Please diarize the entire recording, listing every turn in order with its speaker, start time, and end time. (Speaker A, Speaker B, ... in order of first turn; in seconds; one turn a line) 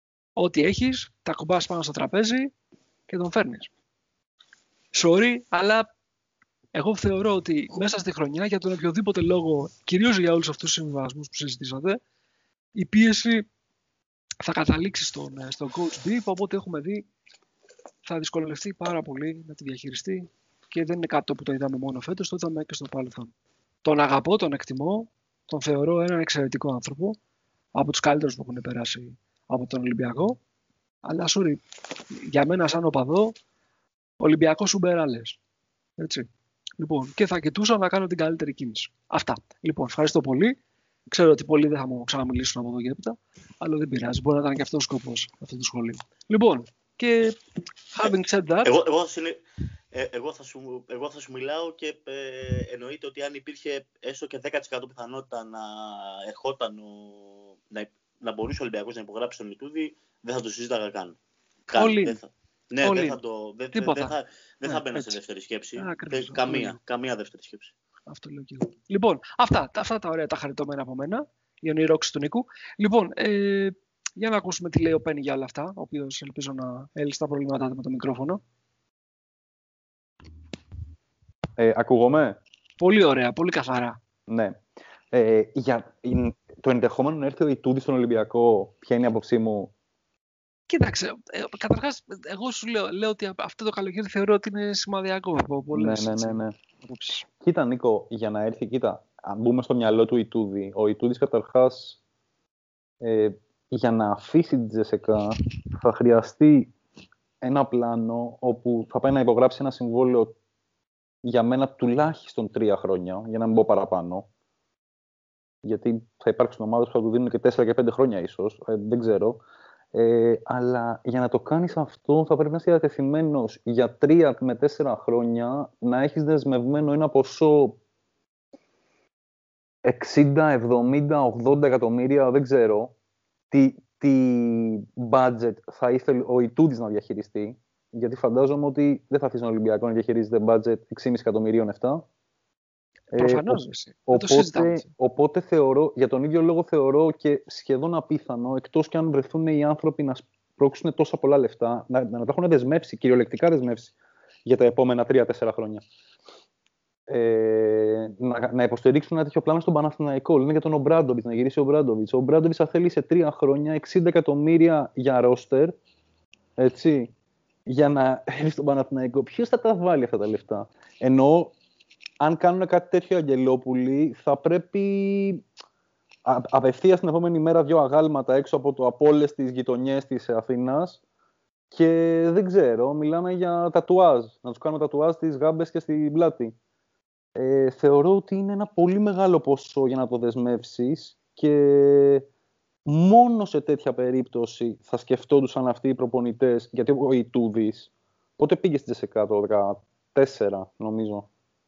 Speaker A: 0.4-2.5
Speaker A: 3.1-3.7
Speaker A: 4.9-5.9
Speaker A: 6.7-12.0
Speaker A: 12.8-13.5
Speaker A: 14.4-17.1
Speaker A: 18.1-23.3
Speaker A: 23.8-27.2
Speaker A: 27.8-30.4
Speaker A: 31.1-31.6
Speaker A: 32.2-33.3
Speaker A: 34.2-35.4
Speaker A: 36.0-36.3
Speaker A: 36.8-40.6
Speaker A: 41.1-47.4
Speaker A: 47.9-48.7
Speaker B: 48.6-61.2
Speaker B: 61.7-67.7
Speaker A: 61.8-62.2
Speaker A: 62.8-63.2
Speaker A: 63.7-65.2
Speaker A: 65.8-66.8
Speaker A: 68.1-78.4
Speaker C: 81.6-82.4
Speaker A: 82.8-84.0
Speaker C: 84.3-84.6
Speaker C: 85.1-89.7
Speaker A: 90.7-97.3
Speaker C: 95.7-96.5
Speaker C: 97.3-102.0
Speaker C: 103.0-106.7
Speaker C: 107.4-110.4
Speaker C: 111.2-114.3
Speaker C: 115.6-119.4
Speaker C: 119.9-127.8
Speaker C: 129.8-132.9
Speaker C: 133.5-142.1
Speaker A: 143.2-144.8
Speaker C: 143.2-153.9
Speaker C: 154.5-155.8
Speaker C: 157.1-165.8
Speaker C: 166.6-167.1
Speaker C: 167.7-171.6
Speaker C: 172.2-175.4
Speaker C: 176.3-181.0
Speaker C: 181.7-186.6
Speaker C: 187.4-192.3
Speaker C: 192.9-201.3